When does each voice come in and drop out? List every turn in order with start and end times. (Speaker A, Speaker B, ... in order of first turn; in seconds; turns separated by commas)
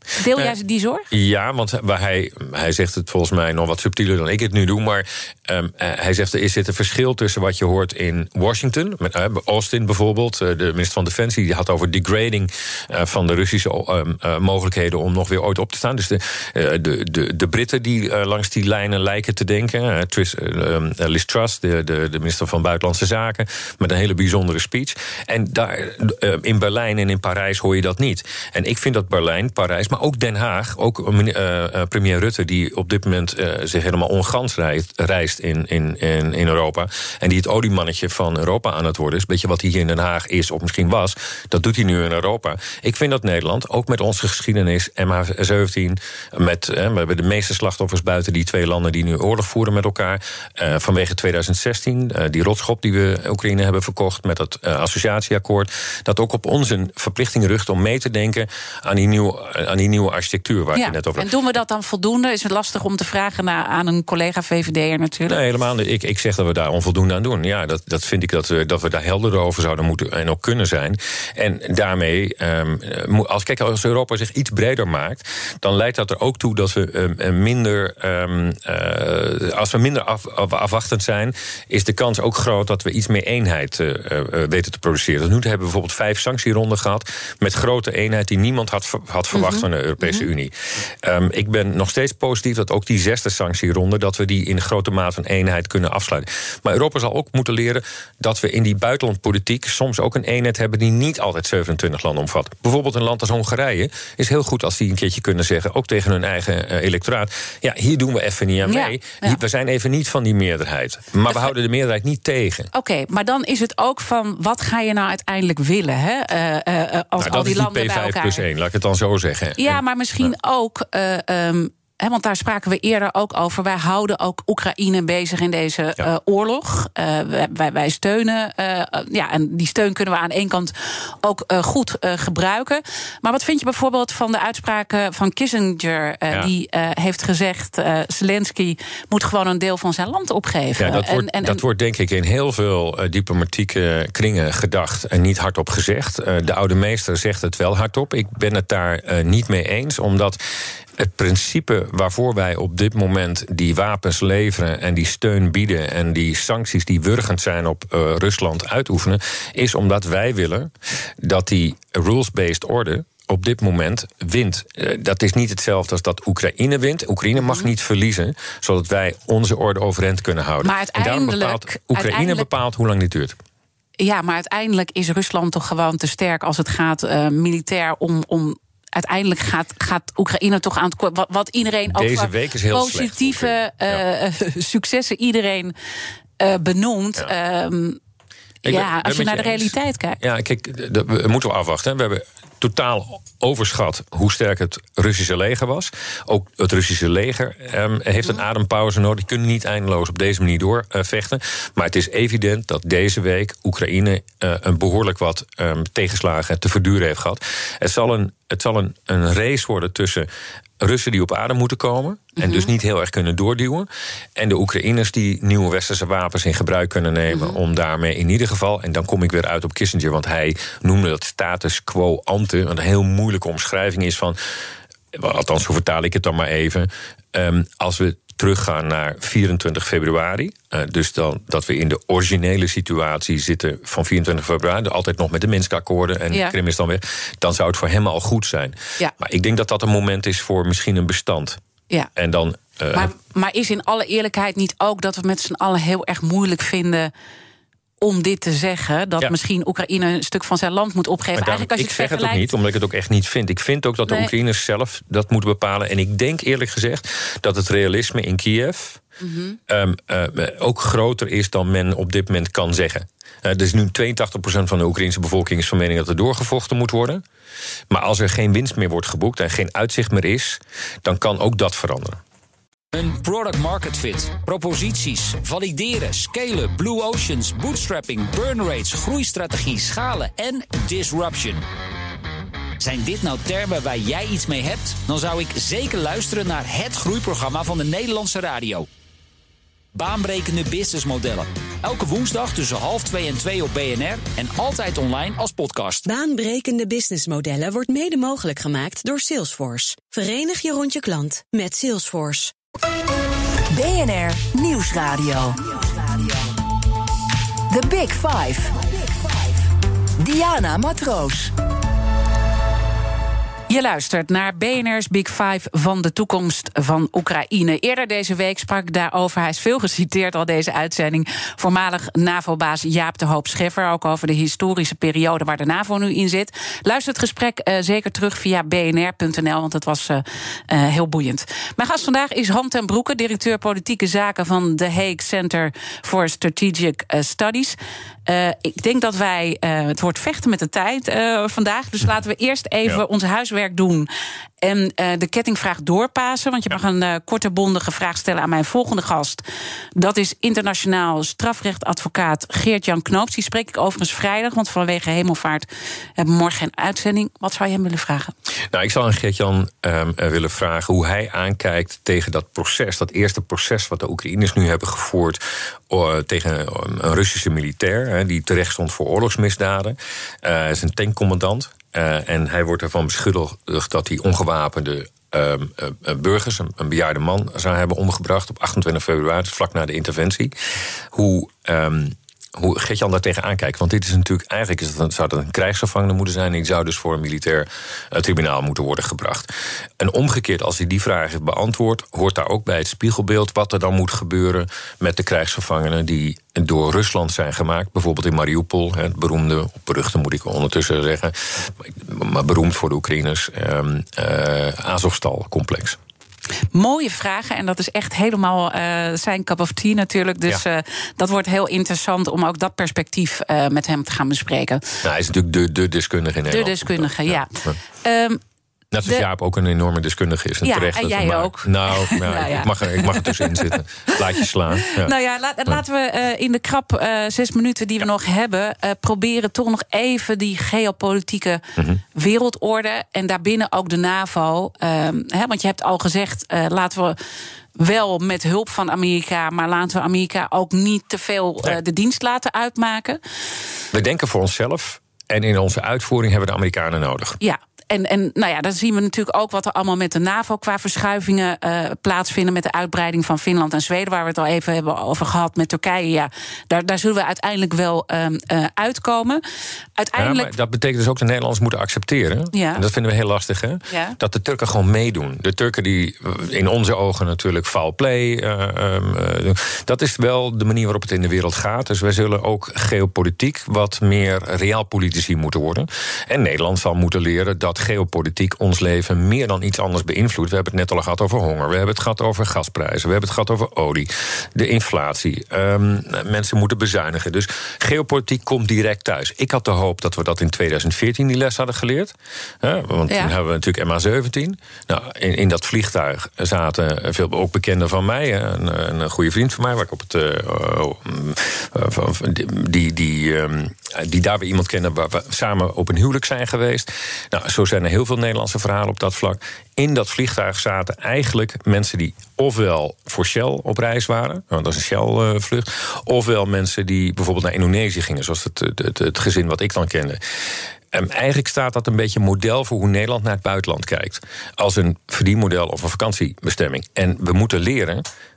Speaker A: 0.2-1.1, Speaker B: 1.1-61.3, Speaker A: 60.7-65.3, Speaker B: 65.2-112.7, Speaker A: 89.3-90.3, Speaker A: 108.6-109.4, Speaker A: 112.7-118.4, Speaker B: 117.2-120.3, Speaker A: 119.6-141.6, Speaker B: 140.8-150.4, Speaker B: 151.0-173.3, Speaker A: 170.6-172.5, Speaker A: 174.0-185.7, Speaker B: 181.9-184.0, Speaker A: 186.4-188.0, Speaker B: 188.6-210.3, Speaker A: 188.6-190.2, Speaker B: 210.8-224.4, Speaker A: 212.4-212.7, Speaker A: 217.3-217.6, Speaker B: 225.1-241.6, Speaker B: 242.2-243.1, Speaker A: 242.9-247.1, Speaker A: 248.0-252.5, Speaker B: 251.3-259.0, Speaker A: 259.2-259.6, Speaker B: 259.7-267.2, Speaker B: 267.9-272.2, Speaker C: 272.9-281.6, Speaker C: 282.8-288.9, Speaker C: 289.9-296.0, Speaker D: 296.0-302.5, Speaker E: 303.7-306.6, Speaker E: 307.7-311.5, Speaker A: 313.7-344.1, Speaker A: 344.6-349.4, Speaker A: 349.9-355.7, Speaker A: 356.2-358.3, Speaker B: 358.7-380.5, Speaker B: 381.1-406.0, Speaker A: 406.7-415.0, Speaker B: 415.0-417.8, Speaker A: 416.5-418.4, Speaker B: 418.9-425.1, Speaker A: 420.6-424.2, Speaker A: 424.8-431.6, Speaker A: 432.1-437.2, Speaker A: 437.8-443.2, Speaker B: 443.9-447.4, Speaker A: 447.4-459.4, Speaker A: 460.0-460.5, Speaker B: 460.1-520.2, Speaker A: 462.5-462.8, Speaker A: 463.9-464.2, Speaker B: 520.9-528.0